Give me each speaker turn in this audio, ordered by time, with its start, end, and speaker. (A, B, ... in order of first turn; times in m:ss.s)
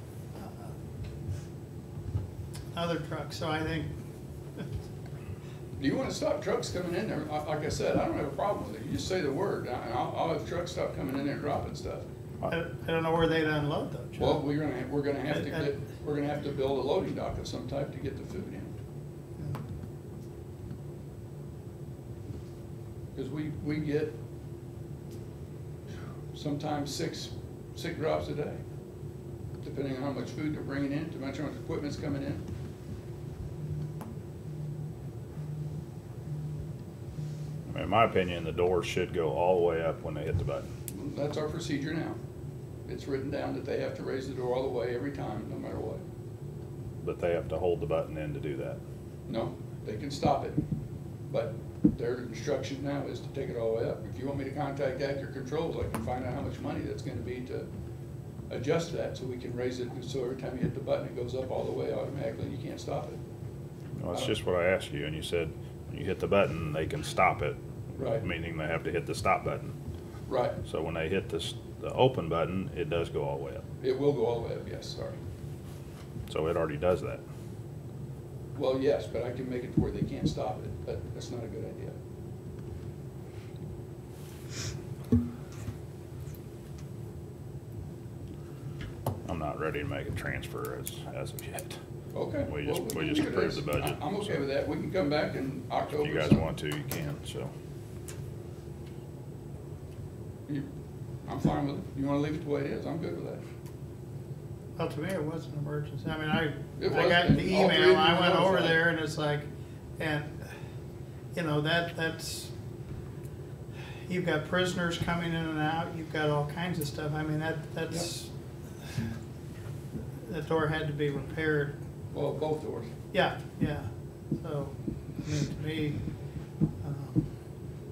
0:00.4-0:00.7 A
0:02.7-0:03.9 A
0:05.8-0:12.0 B
0:12.4-0:14.4 A
0:14.2-0:18.7 B
0:15.3-0:15.7 A
0:23.2-0:24.2 B
0:26.3-0:28.6 B
0:29.6-0:32.4 B
0:37.7-0:40.7 C
0:40.9-0:42.2 B
0:42.9-0:46.0 B
0:47.0-0:48.8 C
0:49.3-0:50.6 B
0:51.3-0:57.7 B
0:58.5-1:03.2 B
1:04.0-1:09.8 C
1:08.0-1:08.2 B
1:10.3-1:10.6 B
1:10.6-1:13.6 C
1:13.8-1:15.2 B
1:16.3-1:17.2 C
1:18.6-1:22.0 B
1:29.2-1:31.8 C
1:32.1-1:36.5 B
1:32.5-1:34.4 C
1:36.0-1:37.5 C
1:41.2-1:43.4 B
1:44.8-1:49.5 A
1:46.8-1:48.9 B
1:50.0-1:50.5 A
1:51.3-1:52.5 A
1:54.1-1:58.3 A
2:00.2-2:01.8 A
2:02.1-2:02.9 B
2:03.1-2:06.0 A
2:06.8-2:07.3 A